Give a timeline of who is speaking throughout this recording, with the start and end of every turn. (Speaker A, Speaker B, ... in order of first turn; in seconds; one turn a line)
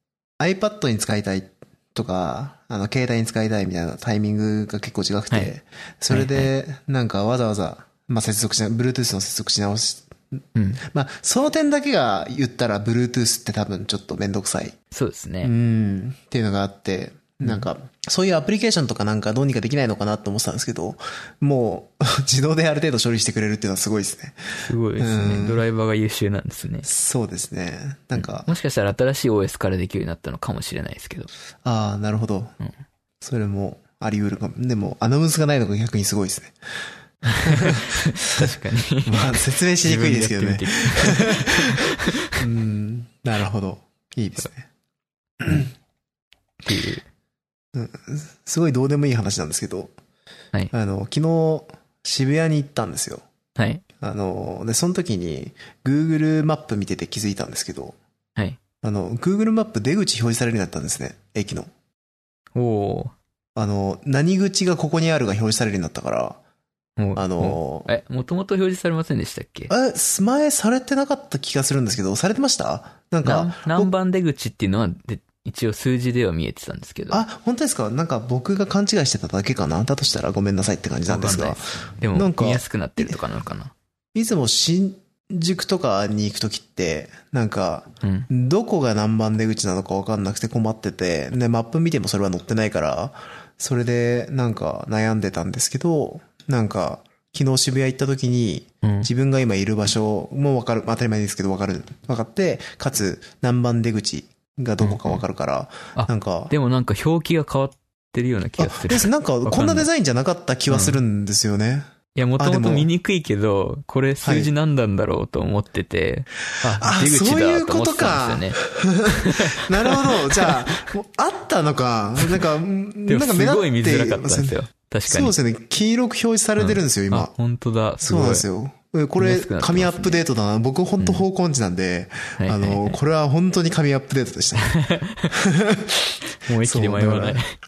Speaker A: 0.4-14.8
Speaker B: 6.1-6.5
Speaker B: 10.5-10.8
Speaker B: 14.9-15.5
Speaker A: 15.4-25.6
Speaker B: 24.6-26.9
Speaker A: 26.8-28.5
Speaker B: 28.1-31.3
Speaker A: 31.6-32.5
Speaker A: 33.2-36.5
Speaker A: 37.2-44.7
Speaker B: 37.5-42.4
Speaker A: 45.4-45.7
Speaker B: 46.6-47.0
Speaker A: 47.7-49.9
Speaker A: 50.7-53.2
Speaker B: 53.5-53.8
Speaker A: 54.0-58.0
Speaker A: 58.8-61.7
Speaker B: 62.5-63.1
Speaker A: 63.5-66.4
Speaker B: 67.0-69.7
Speaker A: 67.2-67.9
Speaker A: 69.7-73.9
Speaker B: 73.2-77.2
Speaker A: 77.1-83.2
Speaker B: 81.0-83.7
Speaker A: 84.1-106.5
Speaker B: 88.0-88.3
Speaker B: 98.8-99.1
Speaker B: 104.8-105.2
Speaker B: 105.9-109.9
Speaker A: 108.6-111.8
Speaker B: 110.7-111.0
Speaker B: 112.1-118.6
Speaker A: 112.4-112.9
Speaker A: 114.2-114.5
Speaker A: 116.6-127.3
Speaker B: 119.1-120.6
Speaker B: 123.1-125.3
Speaker B: 126.6-128.5
Speaker A: 128.0-134.8
Speaker B: 129.2-130.2
Speaker B: 131.0-131.2
Speaker B: 132.4-133.0
Speaker B: 134.6-135.3
Speaker A: 135.3-137.4
Speaker B: 136.4-137.5